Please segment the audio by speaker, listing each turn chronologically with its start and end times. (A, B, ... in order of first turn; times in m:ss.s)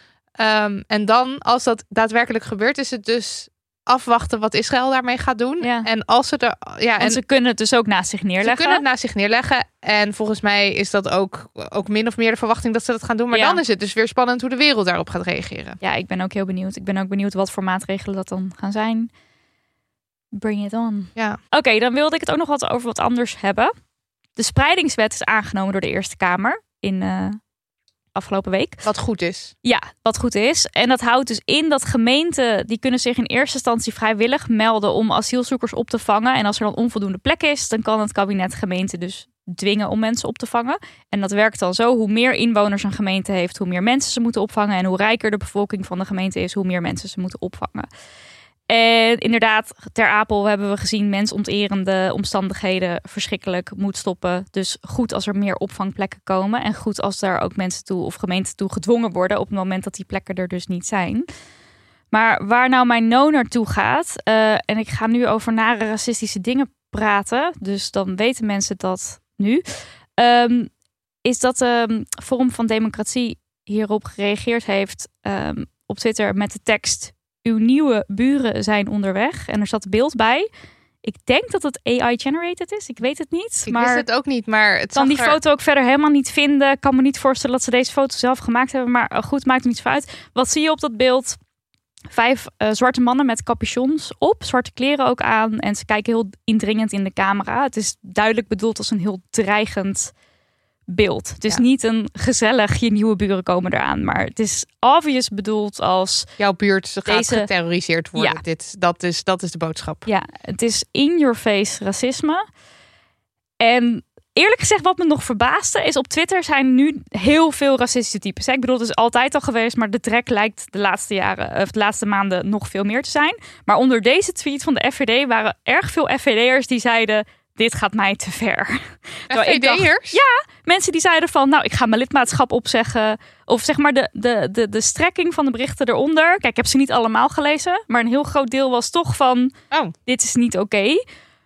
0:00.4-0:07.2 A
0:05.6-0:05.9 B
0:07.0-0:08.8 B
0:08.4-0:15.8 A
0:13.3-0:13.6 B
0:15.8-0:19.1 B
0:20.3-0:23.7 B
0:24.4-0:27.4 B
0:28.2-0:28.9 B
0:28.8-0:29.5 A
0:29.6-0:47.9 B
0:48.7-1:01.3 B
1:02.1-1:09.6 B
1:10.2-1:10.7 B
1:11.2-1:20.5 B
1:21.0-1:24.0 B
1:23.7-1:25.4 A
1:25.0-1:31.4 B
1:32.1-1:40.1 B
1:40.9-1:46.3 B
1:46.4-1:50.1 A
1:47.1-1:47.5 B
1:48.2-1:48.4 B
1:50.1-1:52.4 B
1:53.6-2:19.5 B
2:09.3-2:10.2 A
2:20.1-2:21.0 B